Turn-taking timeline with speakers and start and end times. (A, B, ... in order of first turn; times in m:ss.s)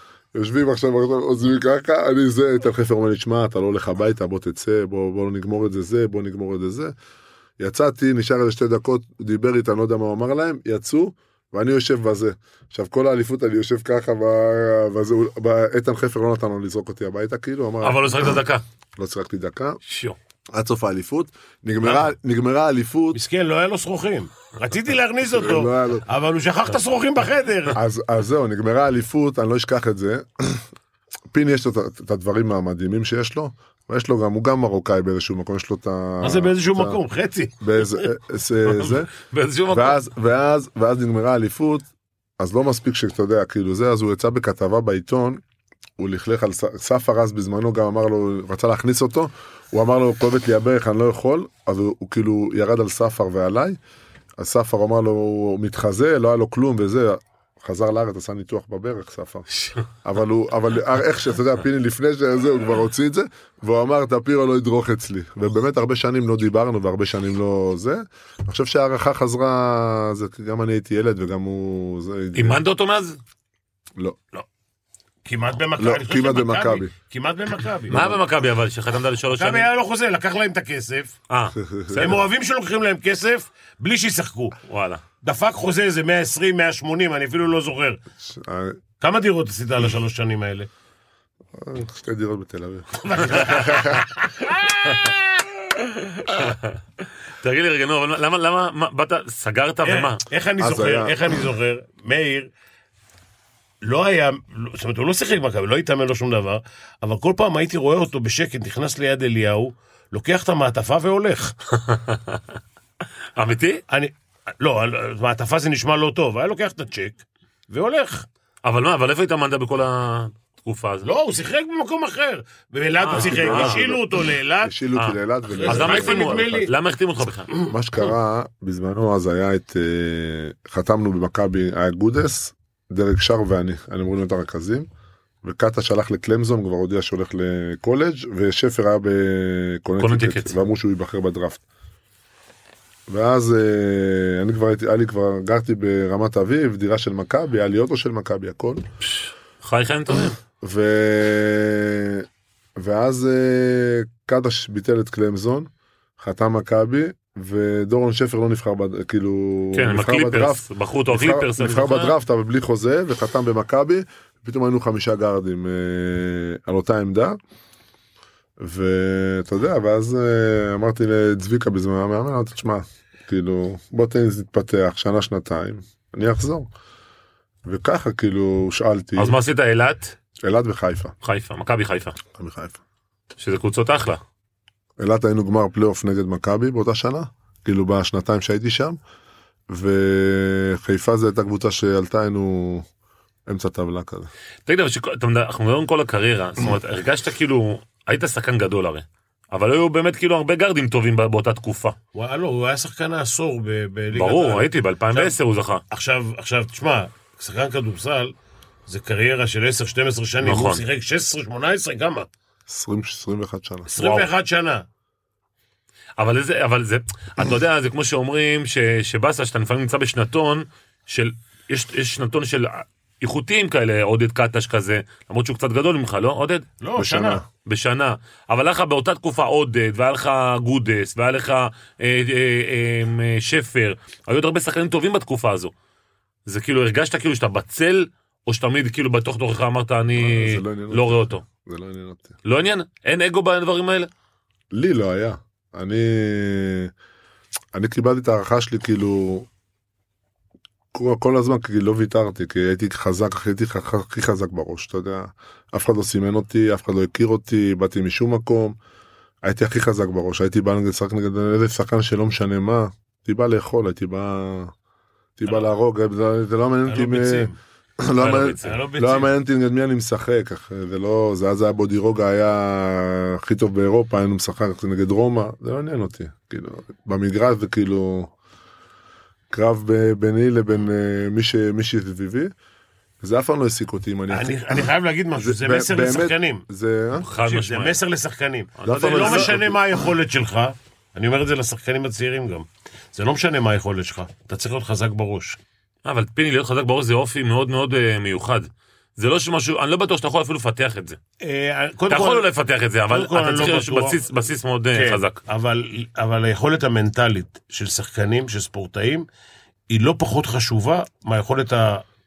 0:00.3-0:06.9 A
0:07.6-0:18.4 A
0:17.8-0:18.6 B
0:19.0-0:19.8 A
0:19.8-0:20.2 B
0:20.5-0:23.2 A
0:23.1-0:27.8 C
0:25.3-0:26.0 A
0:27.7-0:30.6 A
0:31.3-0:37.0 A
0:36.2-0:38.0 C
0:37.6-0:39.1 A
0:38.8-0:40.0 B
0:39.7-0:41.9 A
0:42.4-0:45.4 A
0:46.0-0:53.8 A
0:54.4-0:59.5 A
1:00.0-1:12.6 A
1:12.3-1:13.2 B
1:15.2-1:18.0 C
1:15.8-1:16.9 A
1:17.9-1:19.7 B
1:17.9-1:18.2 A
1:19.3-1:21.2 C
1:21.3-1:22.1 B
1:21.5-1:22.2 A
1:21.9-1:24.5 C
1:24.6-1:25.0 B
1:25.2-1:28.0 C
1:28.2-1:28.8 A
1:29.0-1:30.7 C
1:31.6-1:34.0 A
1:33.0-1:35.3 C
1:36.1-1:36.8 B
1:37.3-1:40.2 B
1:39.8-1:42.5 C
1:40.6-1:41.3 A
1:43.8-1:51.5 C
1:51.7-1:52.4 B
1:53.4-1:53.8 B
1:53.9-1:58.3 C
1:58.6-2:01.1 B
2:01.0-2:04.7 C
2:03.0-2:03.8 B
2:03.1-2:04.0 A
2:04.6-2:06.6 A
2:04.9-2:07.5 B
2:05.6-2:06.7 C
2:07.7-2:14.9 A
2:15.4-2:21.6 A
2:20.0-2:20.5 B
2:23.1-2:28.8 A
2:29.1-2:30.4 B
2:30.6-2:32.2 A
2:32.8-2:47.4 A
2:39.7-2:42.1 B
2:48.6-2:56.7 A
2:57.6-2:59.4 A
2:59.2-3:00.1 B
3:00.4-3:01.1 A
3:01.2-3:02.2 B
3:02.3-3:02.8 A
3:03.4-3:04.2 B
3:05.0-3:09.0 A
3:09.7-3:12.8 A
3:13.5-3:14.3 A
3:14.6-3:22.0 B
3:22.1-3:25.4 C
3:24.1-3:25.8 B
3:25.9-3:28.3 C
3:28.9-3:32.3 C
3:30.4-3:30.8 B
3:32.7-3:33.9 A
3:33.9-3:34.8 C
3:34.0-3:34.3 B
3:36.2-3:46.6 B
3:46.8-3:47.4 C
3:47.0-3:47.4 A
3:47.6-3:55.7 B
3:56.4-4:01.4 B
4:00.2-4:02.4 A
4:02.4-4:04.1 B
4:04.7-4:06.9 A
4:07.7-4:09.5 A
4:10.9-4:18.8 A
4:19.4-4:24.7 A
4:25.4-4:38.3 A
4:26.8-4:27.6 C
4:28.2-4:28.8 B
4:28.6-4:29.3 C
4:39.5-4:42.5 A
4:43.2-4:44.8 A
4:44.3-4:46.6 C
4:45.4-4:47.2 A
4:47.2-4:48.0 B
4:47.4-4:55.6 C
4:48.8-4:49.7 B
4:48.8-4:49.8 A
4:56.0-5:01.2 B
5:01.4-5:02.5 C
5:02.1-5:05.4 B
5:03.1-5:04.2 C
5:04.9-5:09.2 C
5:09.9-5:12.0 C